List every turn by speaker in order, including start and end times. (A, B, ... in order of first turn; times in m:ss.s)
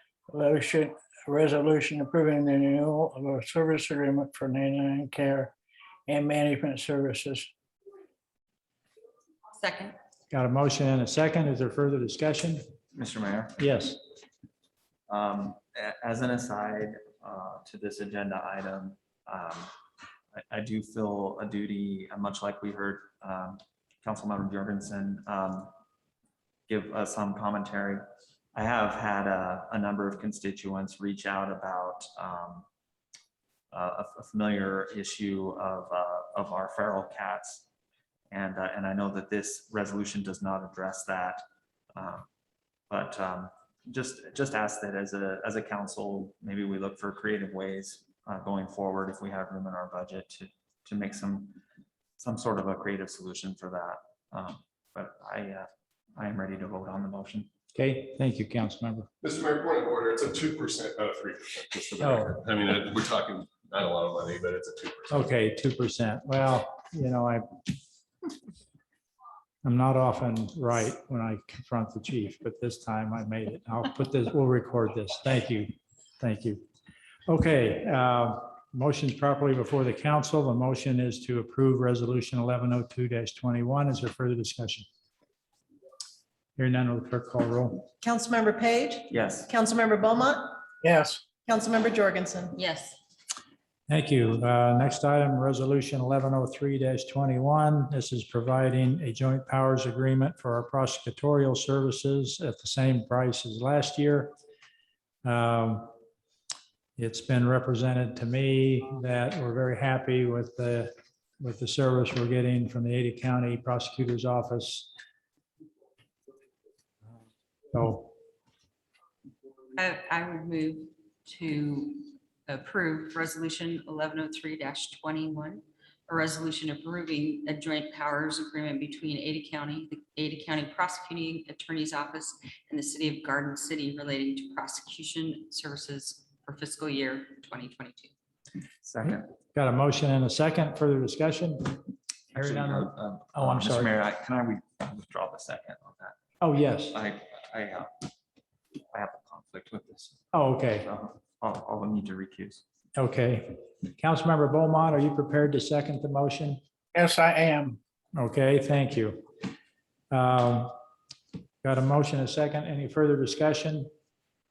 0:00.3-0:05.5 A
0:06.1-0:07.5 A
0:09.5-0:10.0 B
0:10.3-0:12.6 C
0:13.0-0:13.6 D
0:13.6-0:14.0 C
0:15.1-0:19.7 D
0:20.5-0:25.7 D
0:26.7-0:28.0 D
0:28.6-0:32.7 D
0:33.7-0:37.6 D
0:38.3-0:41.4 D
0:42.0-0:42.3 D
0:42.9-0:51.6 D
0:52.2-0:57.5 D
0:57.8-0:59.1 C
0:59.2-1:05.3 E
1:02.0-1:02.4 C
1:05.1-1:07.5 C
1:09.6-1:16.6 C
1:17.3-1:24.8 C
1:26.6-1:27.9 C
1:28.0-1:30.6 F
1:29.1-1:29.5 D
1:30.8-1:31.2 A
1:31.5-1:32.6 F
1:32.6-1:33.0 B
1:33.9-1:44.3 C
1:45.2-1:45.9 C
1:47.0-1:54.9 C
1:57.7-1:58.1 C
1:59.8-2:18.1 B
2:18.8-2:19.3 D
2:19.5-2:23.9 C
2:22.3-2:26.2 D
2:26.4-2:27.0 C
2:26.9-2:27.9 D
2:28.9-2:30.2 D
2:30.3-2:30.9 C
2:30.8-2:32.6 D
2:33.0-2:36.6 C
2:36.9-2:37.8 A
2:38.2-2:39.2 C
2:40.1-2:40.7 C
2:41.6-2:43.9 C